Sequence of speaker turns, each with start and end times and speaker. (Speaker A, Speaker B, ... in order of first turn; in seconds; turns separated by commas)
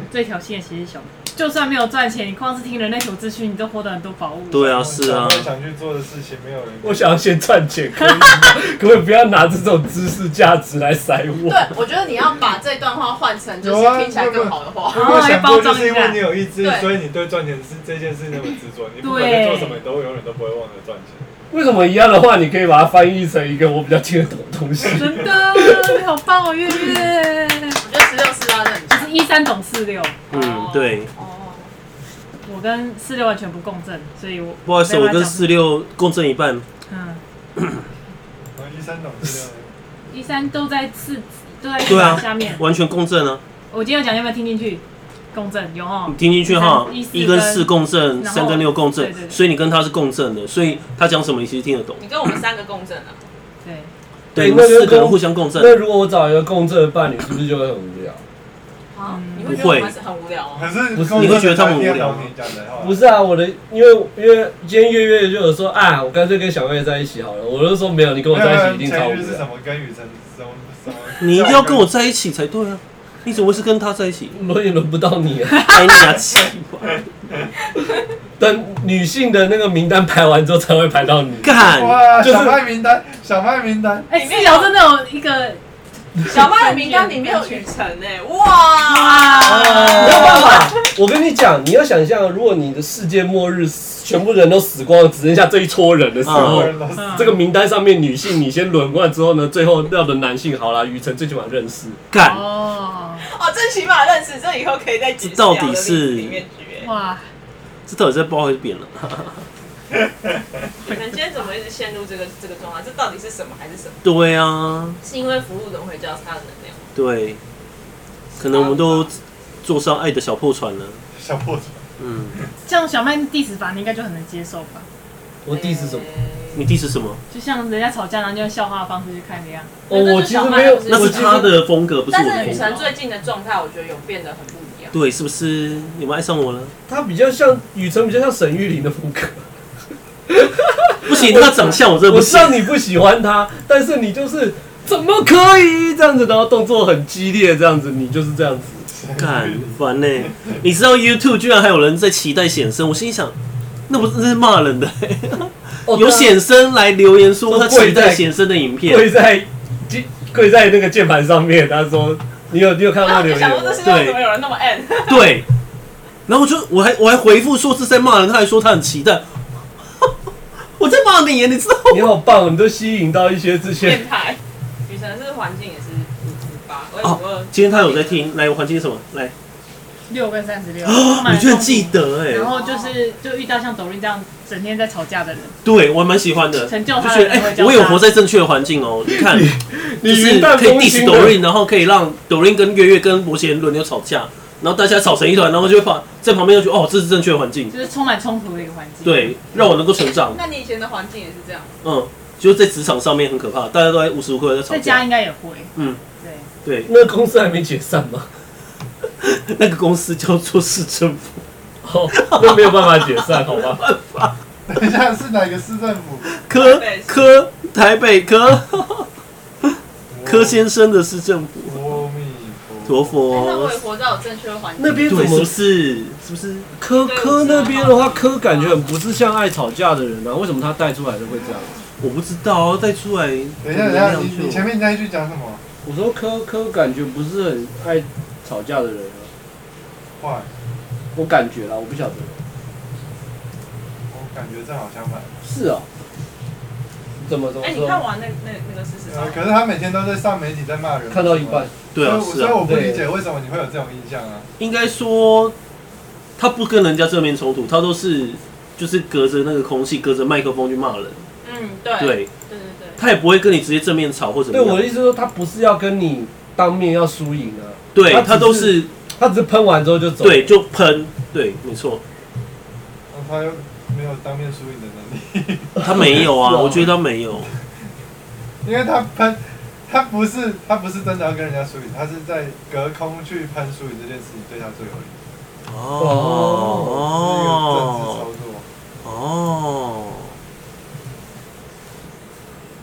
Speaker A: 0.1-4.7, Speaker B: 4.5-5.5, Speaker C: 4.6-7.2, Speaker D: 6.8-11.7, Speaker E: 11.4-15.2, Speaker C: 13.6-21.3, Speaker A: 14.9-16.2, Speaker E: 16.6-16.9, Speaker A: 19.0-19.8, Speaker D: 21.5-26.0, Speaker A: 24.9-27.8, Speaker E: 27.8-29.1, Speaker A: 28.9-30.2, Speaker B: 30.3-31.1, Speaker E: 30.3-31.7, Speaker A: 32.4-35.5, Speaker B: 34.6-36.6, Speaker A: 36.9-37.2, Speaker C: 38.5-39.7, Speaker A: 40.1-42.6, Speaker B: 41.8-43.4, Speaker A: 43.7-49.4, Speaker B: 46.1-52.0, Speaker E: 52.0-53.2, Speaker A: 53.6-53.9, Speaker B: 54.3-55.7, Speaker D: 54.3-58.2, Speaker E: 58.9-60.7, Speaker A: 59.1-59.6, Speaker B: 59.5-59.9, Speaker C: 60.5-63.0, Speaker D: 60.9-61.5, Speaker B: 61.1-62.3, Speaker D: 62.8-69.4, Speaker C: 68.3-71.9, Speaker B: 71.2-74.3, Speaker D: 74.3-75.9, Speaker B: 75.6-77.0, Speaker D: 78.4-81.6, Speaker B: 81.4-82.2, Speaker C: 81.6-84.1, Speaker D: 82.2-82.6, Speaker A: 84.1-85.6, Speaker E: 84.1-84.7, Speaker A: 86.2-87.7, Speaker E: 86.3-90.8, Speaker A: 88.9-90.4, Speaker D: 89.6-102.0, Speaker B: 96.2-96.7, Speaker C: 96.2-97.4, Speaker A: 96.9-97.3, Speaker B: 102.1-102.5, Speaker A: 102.2-103.2, Speaker E: 103.2-106.9, Speaker B: 105.2-106.4, Speaker A: 106.8-107.3, Speaker B: 107.9-109.5, Speaker E: 110.8-114.0, Speaker B: 114.0-115.0, Speaker E: 115.0-116.9, Speaker B: 116.9-117.4, Speaker E: 118.3-119.1, Speaker B: 118.4-121.0, Speaker C: 121.1-122.5, Speaker B: 122.0-122.4, Speaker A: 122.6-124.9, Speaker D: 125.4-126.1, Speaker E: 125.5-126.6, Speaker B: 126.5-127.2, Speaker A: 127.3-129.7, Speaker D: 129.9-131.6, Speaker E: 129.9-131.6, Speaker B: 130.9-132.7, Speaker E: 132.1-134.9, Speaker B: 134.9-136.7, Speaker D: 136.9-139.4, Speaker D: 140.3-148.9, Speaker B: 141.0-142.6, Speaker C: 148.9-149.7, Speaker B: 149.2-153.3, Speaker B: 153.9-159.1, Speaker D: 155.8-156.4, Speaker D: 157.5-158.2, Speaker D: 158.8-163.8, Speaker E: 163.0-165.4, Speaker B: 163.8-164.2, Speaker B: 165.1-165.4, Speaker B: 166.3-169.2, Speaker B: 170.8-172.1, Speaker D: 171.9-174.0, Speaker E: 173.8-178.3, Speaker B: 177.0-179.3, Speaker A: 180.1-185.6, Speaker B: 180.8-182.5, Speaker E: 182.5-182.9, Speaker B: 185.6-189.5, Speaker A: 186.7-188.0, Speaker D: 189.1-191.4, Speaker B: 190.0-197.7, Speaker A: 197.7-199.3, Speaker B: 199.0-200.4, Speaker E: 200.2-201.8, Speaker B: 201.8-205.0, Speaker A: 204.7-206.5, Speaker B: 205.7-206.0, Speaker B: 206.6-206.9, Speaker D: 206.9-208.3, Speaker B: 209.2-211.4, Speaker D: 211.8-213.8, Speaker B: 212.1-214.4, Speaker C: 214.7-216.3, Speaker B: 216.3-219.1, Speaker E: 216.5-217.2, Speaker B: 219.6-222.0, Speaker C: 220.1-220.7, Speaker C: 221.7-223.3, Speaker B: 222.8-223.8, Speaker E: 223.3-225.4, Speaker D: 224.8-225.5, Speaker B: 225.1-226.7, Speaker D: 226.8-231.7, Speaker E: 226.9-228.9, Speaker B: 232.0-234.7, Speaker C: 233.6-235.6, Speaker D: 235.8-239.3, Speaker C: 240.2-240.5, Speaker D: 241.1-242.4, Speaker C: 244.1-245.3, Speaker D: 245.4-245.9, Speaker D: 247.2-248.0, Speaker E: 247.6-249.4, Speaker C: 249.1-254.5, Speaker D: 251.1-251.7, Speaker B: 251.9-252.6, Speaker D: 252.6-253.1, Speaker B: 254.6-255.5, Speaker B: 256.4-261.2, Speaker E: 261.4-263.0, Speaker B: 262.0-262.3, Speaker B: 263.0-264.9, Speaker D: 264.5-270.5, Speaker B: 267.9-268.9, Speaker B: 270.2-272.0, Speaker C: 273.1-276.2, Speaker D: 275.8-276.9, Speaker B: 275.8-277.5, Speaker C: 278.6-285.2, Speaker B: 285.7-288.2, Speaker D: 286.0-287.0, Speaker C: 287.0-288.7, Speaker B: 289.0-290.4